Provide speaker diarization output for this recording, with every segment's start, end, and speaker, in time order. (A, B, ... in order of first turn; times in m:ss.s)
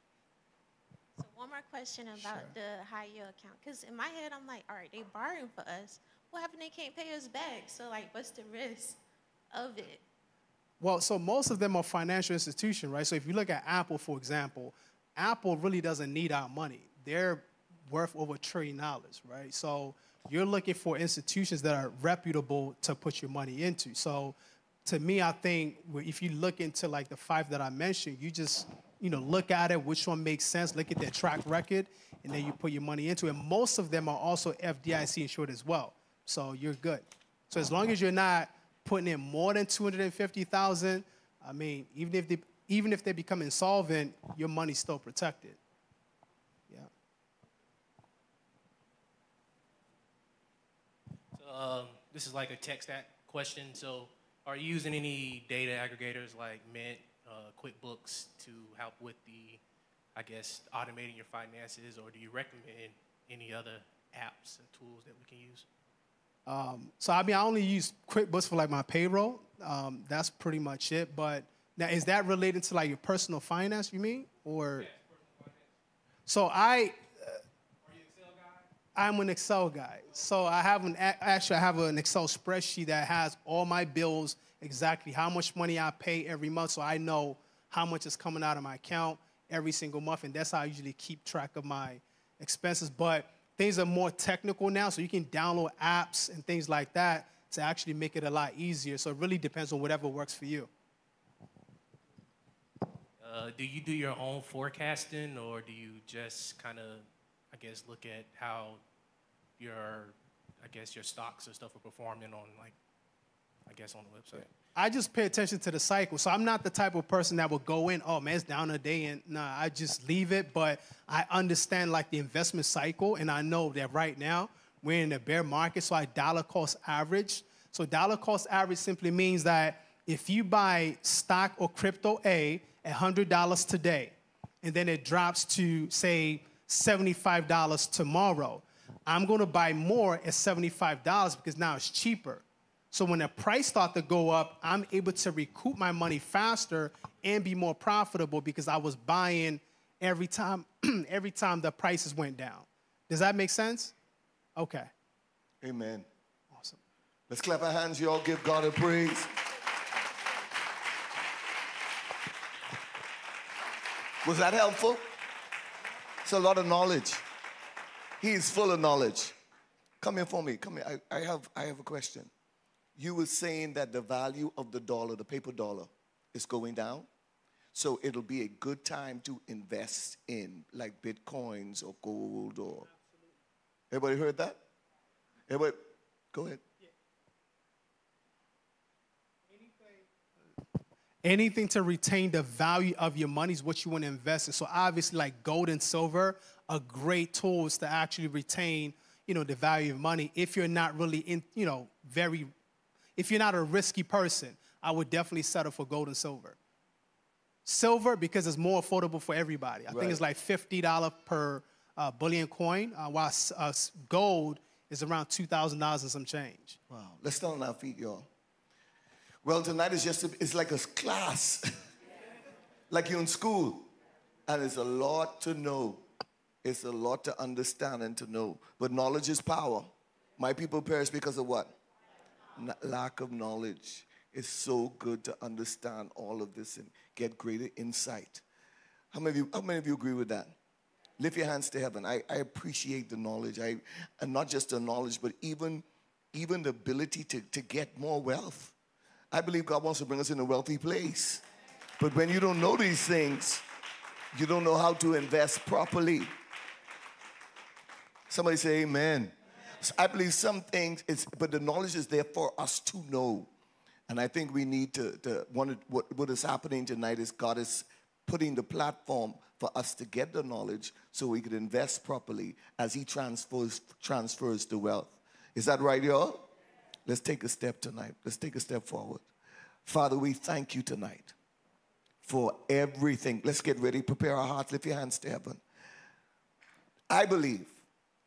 0:01.2-0:09.0 A
0:02.2-0:02.5 B
0:09.5-0:10.0 A
0:10.8-0:45.6 B
0:51.3-0:59.6 C
1:00.1-1:05.6 C
1:06.5-1:14.9 B
1:16.3-1:17.4 B
1:18.9-1:40.7 B
1:43.2-1:48.8 C
1:49.6-1:52.8 C
1:53.6-1:54.5 C
1:54.7-2:33.9 B
2:34.6-2:34.9 B
2:35.6-2:36.1 D
2:36.5-2:36.8 B
2:37.3-2:39.3 D
2:44.2-2:45.1 D
2:46.2-2:47.2 D
2:48.2-2:49.4 D
2:50.0-2:52.3 D
2:53.0-2:57.1 D
2:57.7-3:02.9 D
3:03.9-3:04.6 D
3:05.5-3:06.6 D
3:09.6-3:10.0 B
3:11.2-3:22.5 B
3:23.2-3:26.6 B
3:27.6-3:36.8 B
3:29.9-3:30.2 D
3:36.9-3:38.3 D
3:39.4-3:41.8 D
3:42.9-3:43.9 D
3:44.5-3:46.0 D
3:46.6-3:51.7 D
3:52.6-3:58.4 D
3:59.1-4:00.5 D
4:01.2-4:08.7 D
4:09.3-4:11.4 D
4:12.0-4:13.6 D
4:14.3-4:16.3 D
4:18.3-4:23.5 D
4:24.1-4:36.5 D
4:37.0-4:39.2 D
4:39.8-4:41.3 D
4:42.2-4:45.6 D
4:47.1-4:47.8 D